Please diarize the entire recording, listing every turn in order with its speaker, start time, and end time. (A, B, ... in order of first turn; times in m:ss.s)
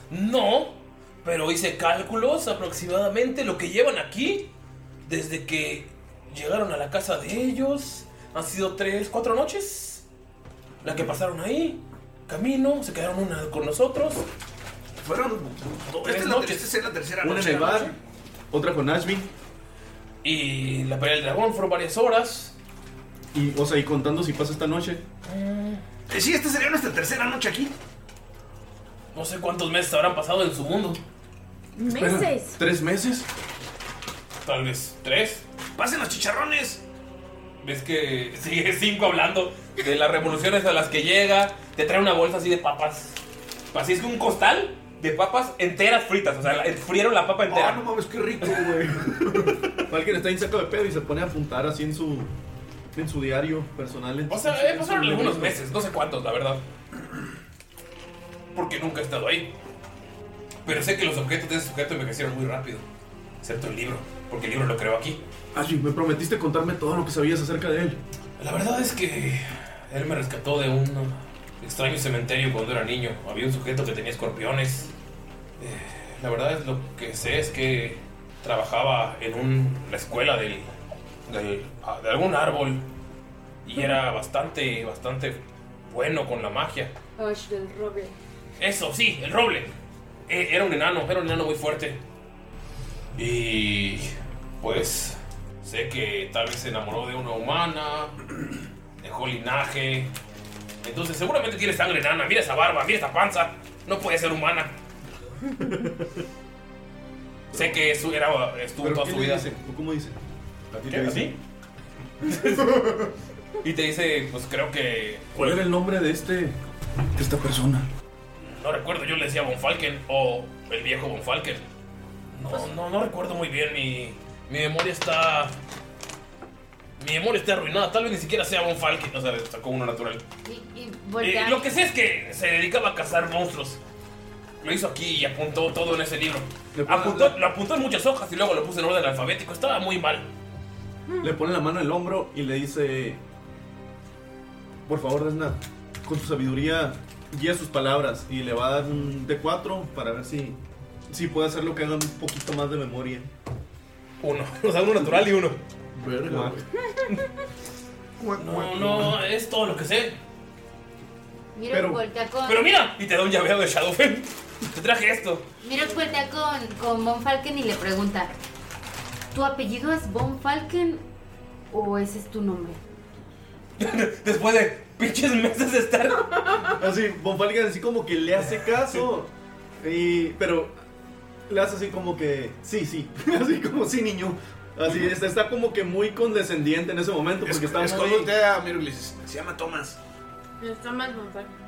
0:00.1-0:04.5 A
0:05.0-0:10.0 A
0:10.8-0:14.2 A
0:15.0-0:17.8 B
0:15.9-0:16.7 A
0:17.2-0:17.9 C
0:17.3-0:17.9 A
0:18.5-0:19.3 C
0:20.2-0:22.5 A
0:23.3-0:25.0 C
0:25.2-0:25.8 A
0:26.1-0:27.7 B
0:29.1-0:31.0 A
0:31.8-0:32.6 D
0:31.9-0:33.3 C
0:34.4-0:35.4 A
0:35.7-0:36.8 B
0:37.6-0:43.2 A
0:43.7-0:47.8 A
0:47.4-0:49.0 B
0:49.0-0:52.3 C
0:52.9-0:55.6 C
0:54.3-0:56.6 A
0:58.5-0:59.5 A
1:00.6-1:02.8 A
1:03.4-1:05.2 A
1:05.5-1:08.0 C
1:08.4-1:14.9 A
1:15.6-1:20.7 A
1:21.3-1:22.8 A
1:23.6-1:26.9 A
1:27.2-1:28.1 D
1:28.6-1:29.7 A
1:30.3-1:32.0 A
1:33.1-1:38.2 A
1:39.0-1:40.1 A
1:40.8-1:44.7 A
1:45.6-1:45.9 C
1:47.5-1:47.8 C
1:47.5-1:49.4 A
1:48.8-1:50.2 C
1:50.7-1:51.3 C
1:50.9-1:51.4 A
1:52.2-1:53.1 A
1:53.6-1:55.6 A
1:55.3-1:56.6 C
1:57.2-1:57.9 C
1:58.4-2:01.6 A
2:02.3-2:05.5 A
2:07.0-2:10.2 A
2:10.4-2:11.7 E
2:11.2-2:13.8 A
2:14.6-2:20.3 A
2:16.7-2:17.4 C
2:21.2-2:23.2 C
2:24.9-2:30.6 C
2:31.1-2:33.3 C
2:34.2-2:35.6 A
2:36.0-2:36.6 B
2:36.2-2:36.6 C
2:38.4-2:40.2 A
2:41.5-2:42.7 E
2:41.7-2:42.0 C
2:42.4-2:45.4 A
2:45.6-2:48.3 E
2:49.3-2:51.0 E
2:51.7-2:52.8 E
2:53.8-2:56.6 A
2:56.8-2:59.3 C
2:59.8-3:00.7 C
3:01.5-3:08.3 C
3:07.4-3:10.0 B
3:10.6-3:11.5 D